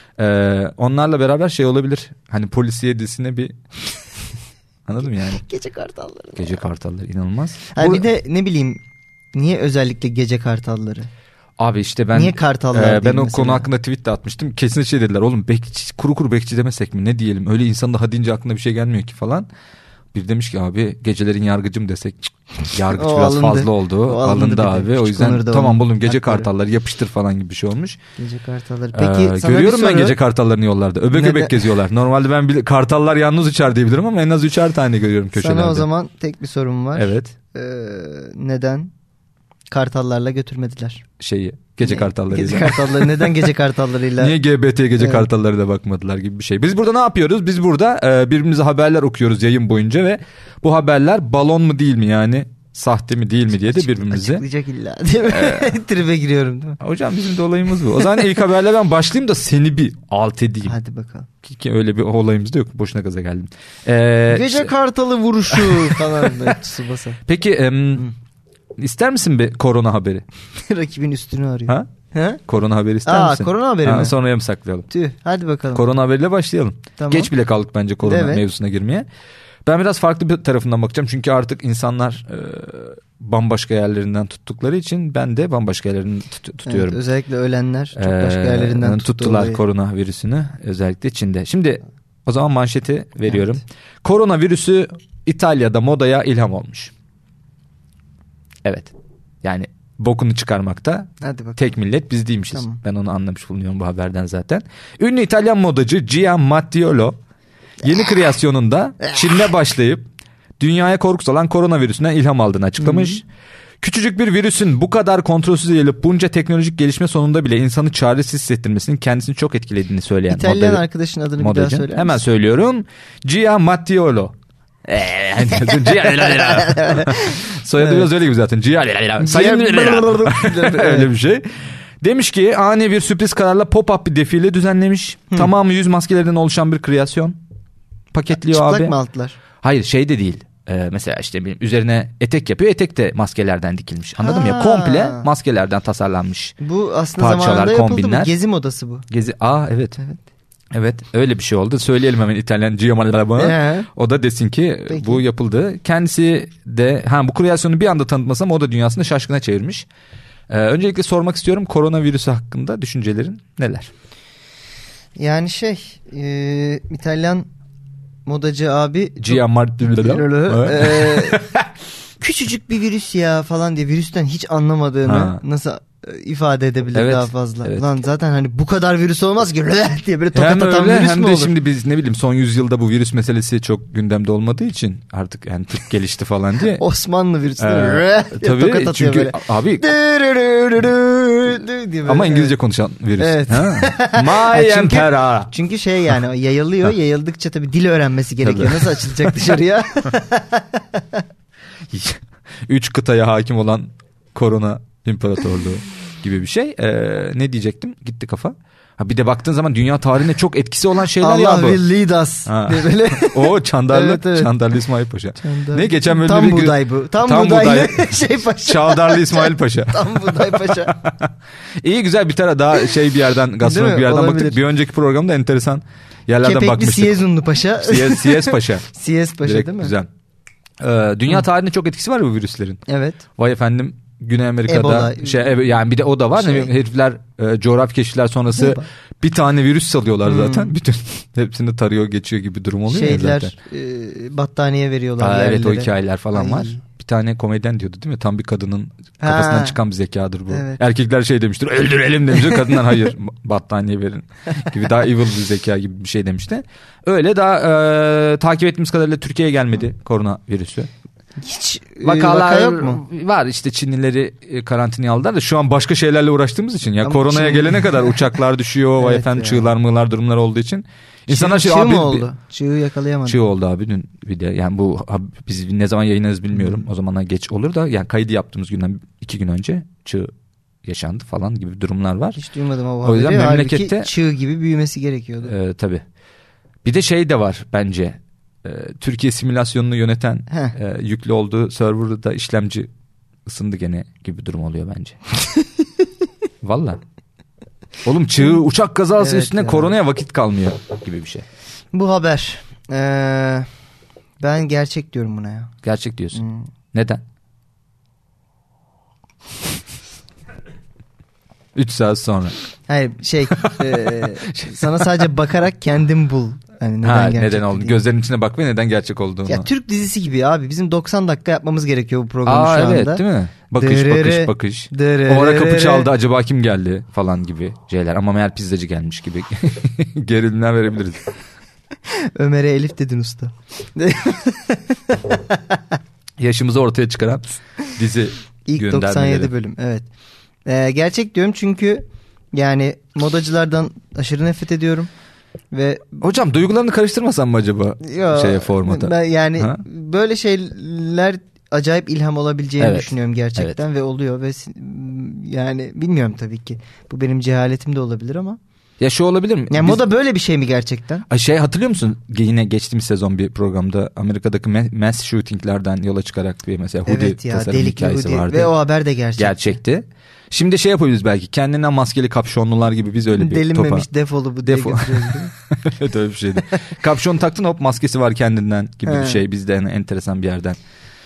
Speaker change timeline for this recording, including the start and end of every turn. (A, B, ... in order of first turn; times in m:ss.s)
0:00.2-0:03.6 A
0:04.8-0:05.4 A
0:05.3-0:06.6 B
0:06.4-0:08.0 A
0:07.7-0:08.8 B
0:09.3-0:11.1 B
0:11.6-0:19.5 A
0:12.1-0:13.7 B
0:20.1-0:28.0 A
0:22.9-0:26.5 B
0:28.2-0:30.2 B
0:28.9-0:35.8 A
0:31.1-0:31.6 B
0:35.3-0:38.9 B
0:37.0-0:37.3 A
0:39.7-0:41.0 B
0:41.2-0:43.5 A
0:41.8-0:44.3 B
0:44.2-0:54.4 A
0:45.0-0:45.2 B
0:53.7-0:56.8 B
0:55.2-0:55.8 A
0:56.8-1:00.7 A
1:00.6-1:01.3 B
1:01.4-1:04.7 A
1:04.3-1:07.2 B
1:05.5-1:06.6 A
1:07.2-1:08.1 A
1:08.8-1:10.2 A
1:10.6-1:12.4 B
1:12.5-1:14.9 A
1:13.0-1:14.1 B
1:14.9-1:15.8 B
1:15.7-1:19.0 A
1:17.0-1:17.3 B
1:18.0-1:18.4 B
1:19.6-1:27.0 A
1:26.6-1:29.6 B
1:28.0-1:36.9 A
1:38.6-1:47.2 A
1:41.2-1:41.6 B
1:42.5-1:42.8 B
1:47.8-1:50.0 A
1:50.6-1:53.2 A
1:52.8-1:53.2 B
1:53.8-2:00.8 A
2:00.3-2:02.2 B
2:01.4-2:17.4 A
2:06.3-2:08.1 B
2:09.2-2:11.1 B
2:18.1-2:18.9 A
2:18.3-2:19.4 B
2:19.6-2:26.5 A
2:24.2-2:25.3 B
2:26.6-2:29.0 B
2:27.2-2:28.3 A
2:29.1-2:30.0 A
2:30.7-2:39.9 A
2:33.4-2:33.9 B
2:34.9-2:35.2 B
2:40.5-2:43.9 A
2:45.2-2:47.5 B
2:48.2-2:51.4 B
2:49.2-2:51.7 A
2:52.2-3:01.5 B
2:55.0-2:55.4 A
2:56.9-2:57.9 A
3:00.3-3:06.8 A
3:06.8-3:12.5 B
3:07.6-3:09.8 A
3:12.0-3:15.5 A
3:13.2-3:21.2 B
3:18.4-3:19.5 A
3:21.9-3:31.8 A
3:31.2-3:34.5 B
3:32.5-3:47.2 A
3:35.4-3:40.9 B
3:43.6-3:44.6 B
3:46.4-3:49.9 B
3:47.8-3:48.8 A
3:49.4-3:50.1 A
3:50.8-3:52.8 A
3:52.9-3:53.2 B
3:53.4-4:03.5 A
3:54.7-3:55.6 B
3:56.4-3:56.7 B
3:58.6-3:58.8 B
4:00.2-4:00.7 B
4:02.9-4:06.8 B
4:05.2-4:20.9 A
4:09.2-4:09.8 B
4:10.5-4:10.8 B
4:21.4-4:23.0 B
4:22.0-4:32.2 A
4:27.0-4:28.3 B
4:29.0-4:29.7 B
4:31.3-4:33.4 B
4:33.2-4:40.3 A
4:36.5-4:36.8 B
4:40.8-4:42.4 A
4:42.4-4:45.5 B
4:43.0-4:44.1 A
4:45.4-4:46.0 A
4:46.8-4:52.9 A
4:50.5-4:50.8 B
4:53.4-4:55.2 A
4:56.6-4:57.0 A
4:58.0-5:01.4 A
4:59.2-4:59.9 B
5:01.9-5:03.7 B
5:04.4-5:05.7 B
5:05.8-5:06.4 A
5:06.3-5:06.7 B
5:06.9-5:07.2 A
5:11.7-5:12.5 A
5:12.9-5:18.0 B
5:13.5-5:15.1 A
5:17.0-5:19.7 A
5:19.4-5:23.2 B
5:22.4-5:31.2 A
5:23.8-5:26.1 B
5:32.1-5:36.0 B
5:36.4-5:37.4 A
5:37.9-5:39.5 A
5:38.7-5:40.0 B
5:40.6-5:45.1 B
5:45.7-5:46.4 B
5:46.2-5:49.8 A
5:48.0-5:58.6 B
5:52.8-5:53.8 A
5:59.0-6:00.0 A
5:59.7-6:01.2 B
6:01.3-6:08.7 A
6:07.0-6:09.8 B
6:09.4-6:14.1 A
6:13.3-6:15.5 B
6:14.6-6:20.8 A
6:19.0-6:19.4 B